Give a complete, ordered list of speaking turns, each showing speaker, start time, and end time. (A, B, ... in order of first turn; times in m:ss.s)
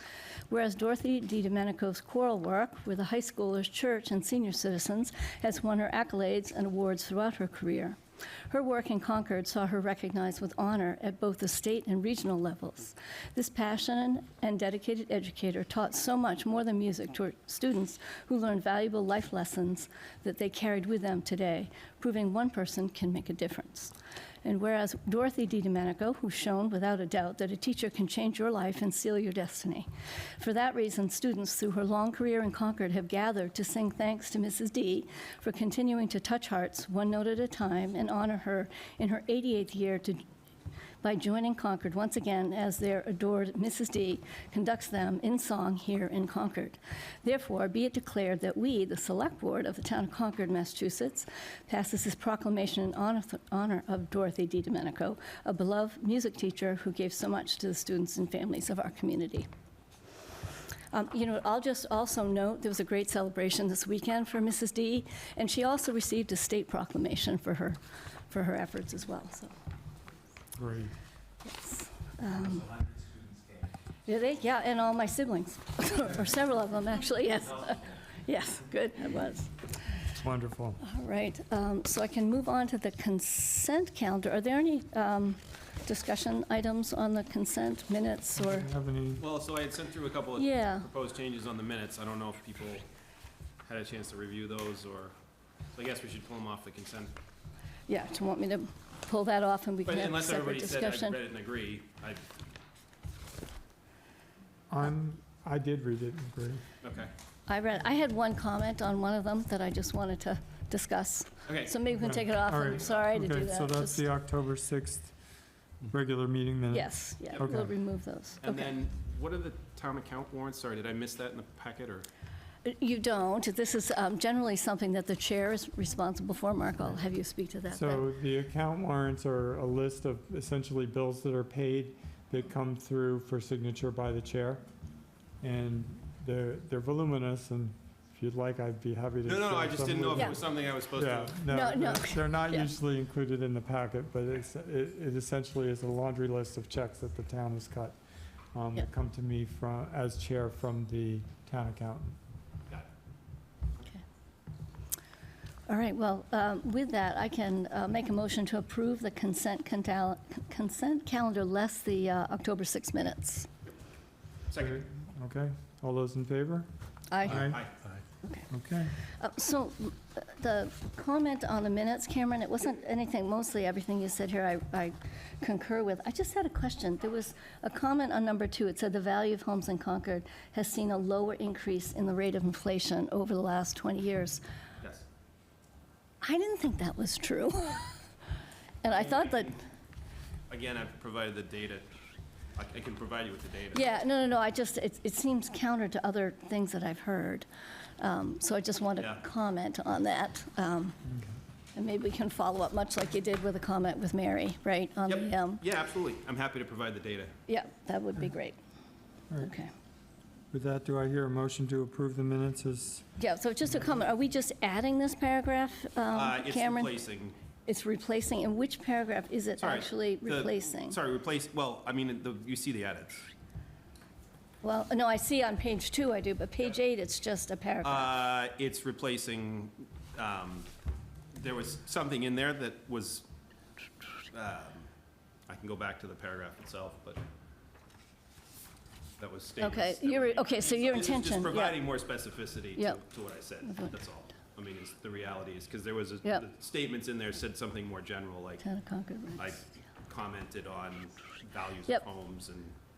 0:00.5-0:08.0 A
0:08.5-0:40.2 A
0:41.0-0:59.5 A
1:00.9-1:09.5 A
1:10.6-1:10.9 B
1:11.4-1:12.8 A
1:14.1-1:19.5 A
1:20.1-1:20.8 B
1:20.8-1:28.7 A
1:28.4-1:29.2 B
1:29.2-1:32.9 C
1:30.4-1:30.9 A
1:33.6-1:35.1 C
1:35.7-1:37.1 C
1:37.9-1:41.2 A
1:39.8-1:42.2 C
1:44.7-1:46.6 B
1:46.8-1:47.1 C
1:47.5-1:54.0 A
1:51.5-1:51.7 C
1:51.9-1:55.1 B
1:55.8-1:57.7 B
1:56.7-1:58.8 A
1:58.4-2:02.1 C
2:02.6-2:08.0 A
2:07.7-2:14.6 B
2:15.4-2:28.0 B
2:19.2-2:21.4 C
2:21.5-2:22.7 A
2:28.5-2:32.2 B
2:35.7-2:43.5 A
2:44.5-2:44.8 C
2:44.6-2:46.7 B
2:47.1-2:47.6 A
2:47.2-2:47.6 B
2:47.2-2:48.0 C
2:48.5-2:48.9 B
2:49.0-3:04.4 A
3:06.2-3:08.0 A
3:08.8-3:09.6 A
3:08.9-3:09.5 C
3:10.5-3:11.9 C
3:12.5-3:13.8 C
3:13.7-3:17.4 A
3:18.0-3:21.0 A
3:21.0-3:21.4 B
3:21.7-3:25.6 A
3:25.1-3:27.3 C
3:27.5-3:28.6 A
3:29.4-3:29.7 A
3:30.5-3:33.0 B
3:33.2-3:37.0 A
3:36.1-3:37.3 C
3:37.6-3:41.0 A
3:39.6-3:43.2 C
3:44.6-3:48.1 A
3:47.8-3:50.7 C
3:51.3-3:53.2 C
3:54.3-3:54.9 C
3:55.5-3:57.2 C
3:59.2-4:08.6 C
3:59.6-4:01.8 A
4:08.6-4:09.5 A
4:09.4-4:12.7 C